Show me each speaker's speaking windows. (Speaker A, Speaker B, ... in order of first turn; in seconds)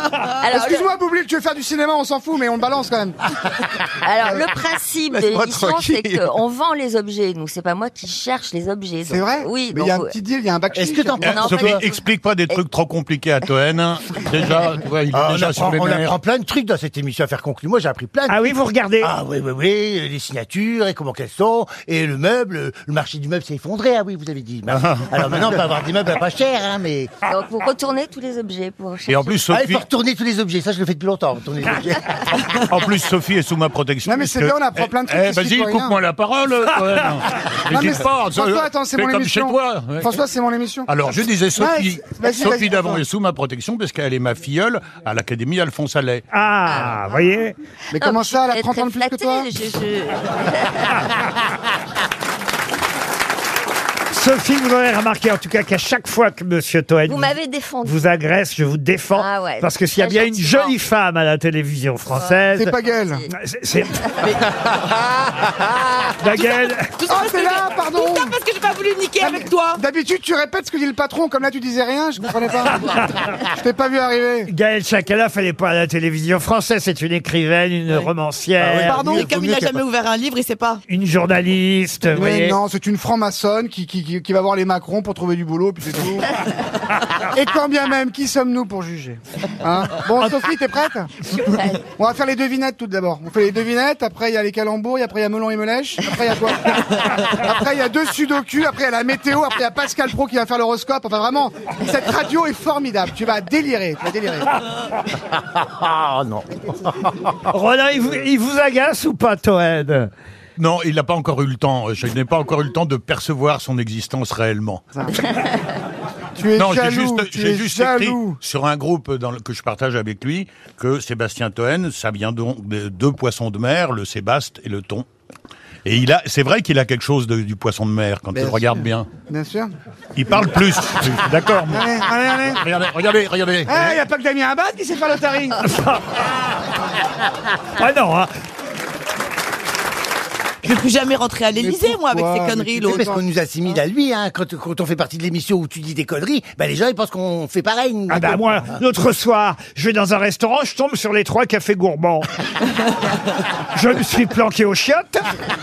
Speaker A: 0.4-0.9, 4.0-10.2, 11.3-11.9, 27.2-29.3, 46.7-47.0, 48.0-51.1, 57.1-58.0, 59.1-60.7, 62.1-63.3, 91.5-91.8
Speaker B: 0.5-3.3, 9.1-11.4, 34.0-36.0, 37.7-40.9, 41.5-43.0, 47.9-49.5, 62.5-63.2, 67.1-68.4, 69.2-72.9, 73.5-74.5, 82.1-86.3, 87.2-91.1, 91.8-104.5, 114.9-115.2, 116.3-118.4, 128.3-129.7, 131.7-132.6, 133.6-135.7, 141.5-143.2
Speaker C: 10.7-11.8, 15.1-27.1, 29.5-32.5, 78.6-79.8, 105.1-107.4, 142.8-148.8
Speaker D: 11.2-16.2, 24.7-25.1, 29.1-29.8, 32.6-40.1, 40.9-46.2, 110.6-114.8, 116.5-125.0, 125.8-129.1, 130.2-131.9, 132.5-134.0
Speaker E: 18.3-19.1, 46.3-47.5, 54.1-62.7, 63.3-64.3, 66.2-66.9, 74.5-79.2, 80.9-82.6, 107.5-110.1, 135.6-136.0, 137.7-138.3, 148.1-152.3, 153.7-155.2
Speaker F: 66.3-69.8, 78.8-80.8, 140.6-143.1